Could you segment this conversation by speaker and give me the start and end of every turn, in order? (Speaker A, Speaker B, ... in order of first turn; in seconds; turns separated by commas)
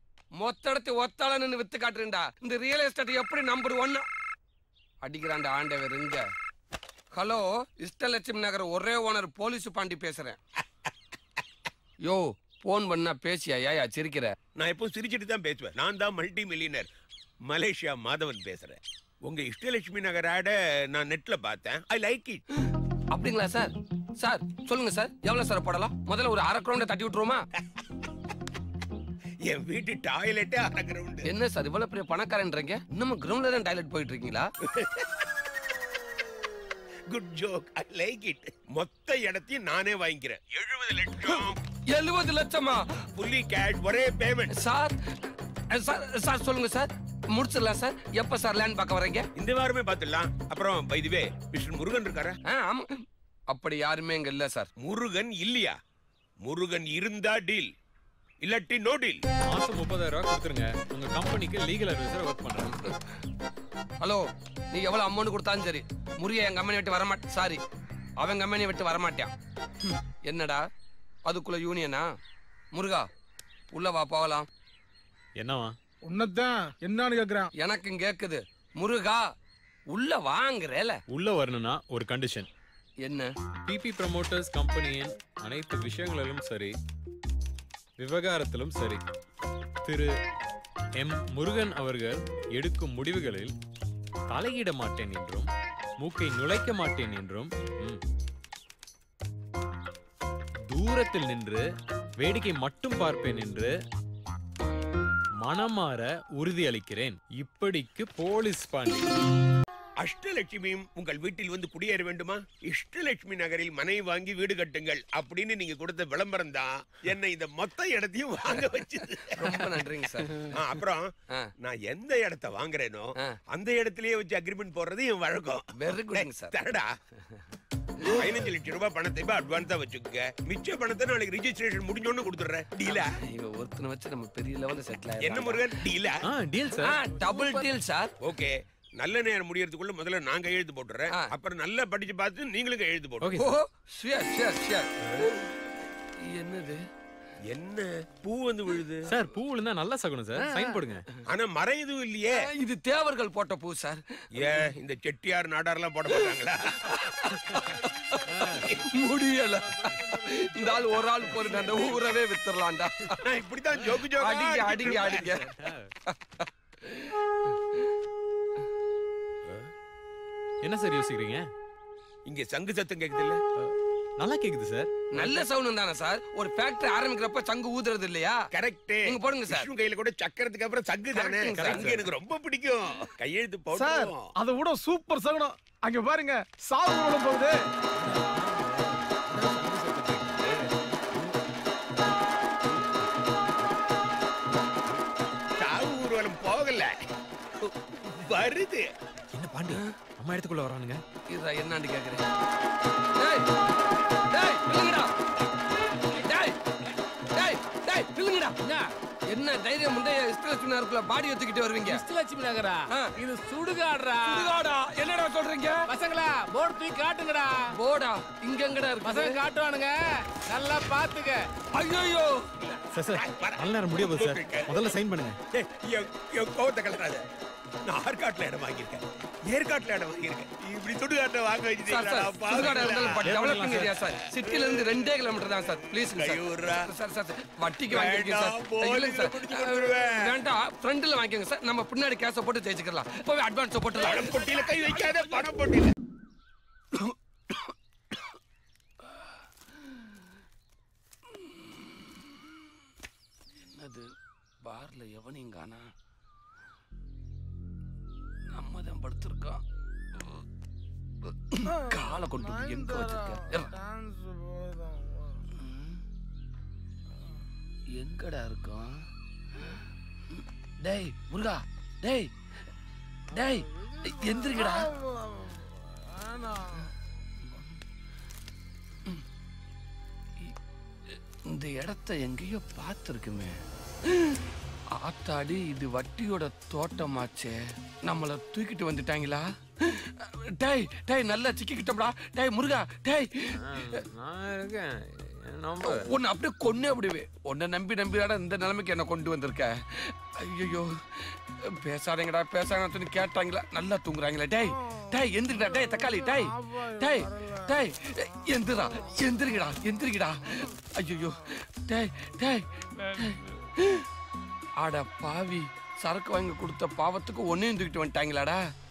Speaker A: 0.4-4.0, Speaker A: 5.0-6.2, Speaker A: 7.1-10.4, Speaker A: 12.1-14.3, Speaker B: 14.6-16.9, Speaker B: 17.5-22.4, Speaker A: 23.1-27.4, Speaker B: 29.4-31.2, Speaker A: 31.3-34.5, Speaker B: 34.8-35.1, Speaker B: 37.1-41.6, Speaker A: 41.9-42.8, Speaker B: 43.2-44.5, Speaker A: 44.5-45.0, Speaker A: 45.7-49.3, Speaker B: 49.4-52.4, Speaker A: 52.5-54.7, Speaker B: 54.8-55.8, Speaker B: 56.5-57.7, Speaker B: 58.4-59.2, Speaker C: 59.5-62.8, Speaker A: 62.7-63.0, Speaker A: 64.0-67.6, Speaker A: 68.2-69.3, Speaker A: 69.9-70.6, Speaker A: 71.3-72.1, Speaker A: 72.7-73.1, Speaker A: 73.7-74.5, Speaker C: 75.4-75.7, Speaker D: 76.1-77.5, Speaker A: 77.6-79.2, Speaker A: 79.9-81.0, Speaker C: 81.1-82.5, Speaker A: 83.0-83.3, Speaker C: 83.7-86.8, Speaker C: 88.0-89.0, Speaker C: 89.8-90.1, Speaker C: 91.0-93.5, Speaker C: 94.3-98.0, Speaker C: 100.7-101.7, Speaker C: 102.2-103.7, Speaker C: 105.4-109.1, Speaker B: 110.0-119.7, Speaker A: 119.3-120.5, Speaker B: 120.3-125.6, Speaker A: 125.8-126.5, Speaker B: 126.2-126.9, Speaker B: 128.0-133.1, Speaker A: 132.8-135.6, Speaker B: 135.2-136.2, Speaker C: 136.2-137.0, Speaker A: 136.8-138.1, Speaker B: 138.2-143.4, Speaker C: 143.2-143.5, Speaker A: 143.3-145.5, Speaker A: 146.2-146.8, Speaker B: 147.5-149.1, Speaker C: 149.1-151.0, Speaker B: 151.3-152.4, Speaker A: 152.6-154.6, Speaker B: 154.4-156.9, Speaker A: 156.8-163.2, Speaker B: 163.2-165.3, Speaker A: 164.2-165.5, Speaker C: 164.9-165.9, Speaker A: 166.1-167.1, Speaker C: 170.6-171.5, Speaker B: 172.3-173.4, Speaker C: 173.6-175.4, Speaker A: 175.2-178.4, Speaker B: 178.5-184.3, Speaker A: 179.1-179.7, Speaker A: 181.1-182.0, Speaker C: 181.6-182.0, Speaker D: 183.7-187.6, Speaker B: 195.6-196.9, Speaker B: 197.6-198.9, Speaker C: 199.3-201.0, Speaker A: 201.3-202.2, Speaker A: 203.2-203.5, Speaker A: 204.3-205.1, Speaker A: 206.1-206.6, Speaker A: 207.3-208.6, Speaker A: 209.3-212.0, Speaker E: 212.1-214.0, Speaker A: 214.3-215.8, Speaker E: 216.6-217.0, Speaker A: 217.7-219.4, Speaker E: 219.1-219.5, Speaker A: 221.7-222.4, Speaker B: 222.7-224.7, Speaker C: 222.9-225.4, Speaker B: 225.5-227.2, Speaker B: 227.9-233.2, Speaker A: 231.9-244.4, Speaker C: 233.2-233.9, Speaker B: 234.5-234.8, Speaker B: 236.0-236.9, Speaker B: 237.9-240.2, Speaker B: 244.0-245.9, Speaker A: 251.4-252.2, Speaker A: 253.6-254.1, Speaker A: 254.6-255.9, Speaker A: 258.5-259.6, Speaker A: 261.5-263.7, Speaker D: 261.7-265.4, Speaker A: 265.6-266.0, Speaker A: 267.9-269.1, Speaker A: 270.8-272.3, Speaker A: 273.3-274.9, Speaker D: 274.8-275.6, Speaker D: 276.1-276.8, Speaker A: 281.5-283.6, Speaker A: 284.9-294.0, Speaker C: 293.6-296.1, Speaker A: 295.8-301.0, Speaker A: 301.7-314.0, Speaker D: 305.7-307.6, Speaker A: 314.8-318.6